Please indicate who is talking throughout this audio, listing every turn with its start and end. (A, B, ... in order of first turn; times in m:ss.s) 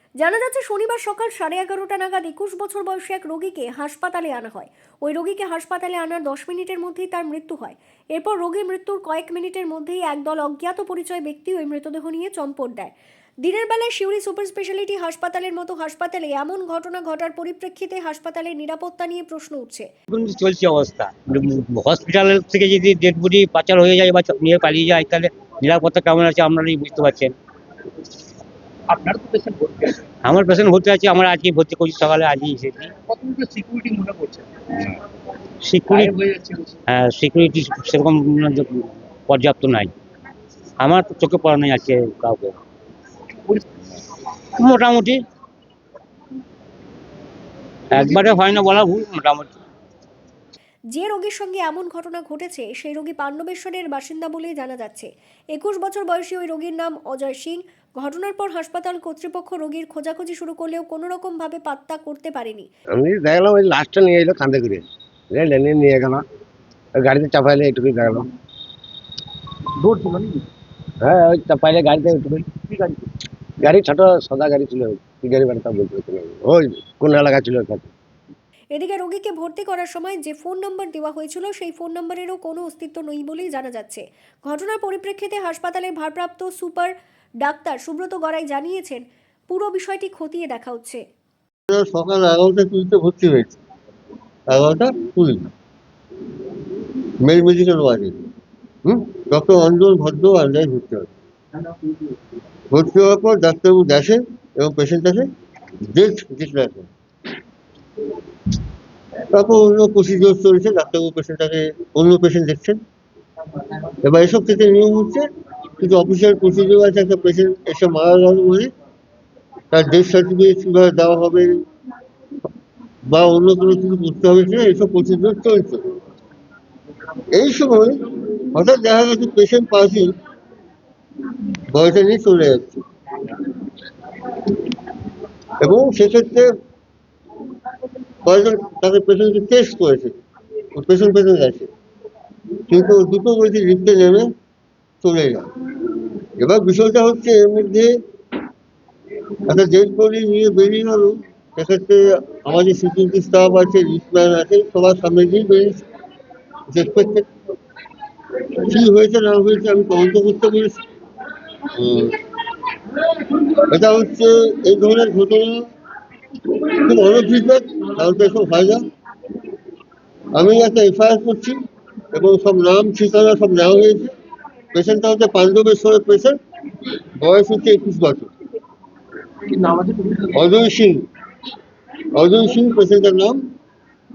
0:00.2-0:19.9 A
0:20.1-0:27.3 B
0:28.9-0:30.0 C
0:30.2-0:32.9 B
0:33.1-0:34.9 C
0:35.6-0:36.1 B
0:35.9-0:36.8 C
0:36.9-0:39.9 B
0:40.8-0:42.6 B
0:44.6-0:45.2 B
0:47.9-0:49.6 B
0:50.9-1:02.7 A
1:02.9-1:06.2 D
1:07.0-1:08.3 D
1:09.8-1:10.4 C
1:11.0-1:12.5 D
1:12.7-1:13.0 C
1:13.6-1:17.9 D
1:18.7-1:31.0 A
1:31.7-1:33.6 E
1:34.5-1:35.5 E
1:37.2-1:38.2 E
1:38.8-1:41.1 E
1:42.7-1:45.3 E
1:45.9-1:46.9 E
1:49.3-1:52.8 E
1:54.0-1:55.3 E
1:55.8-1:58.7 E
1:59.7-2:01.6 E
2:03.1-2:05.8 E
2:07.3-2:10.2 E
2:11.7-2:12.8 E
2:15.6-2:16.5 E
2:18.2-2:20.2 E
2:20.8-2:21.7 E
2:22.7-2:24.3 E
2:25.0-2:25.5 E
2:26.4-2:28.0 E
2:29.5-2:35.8 E
2:36.7-2:37.3 E
2:38.6-2:40.8 E
2:41.7-2:42.2 E
2:43.6-2:45.7 E
2:46.8-2:48.9 E
2:50.4-2:51.6 E
2:52.1-2:54.1 E
2:54.7-2:56.4 E
2:57.2-2:58.3 E
2:59.8-3:00.2 C
3:00.3-3:01.1 E
3:02.1-3:03.4 E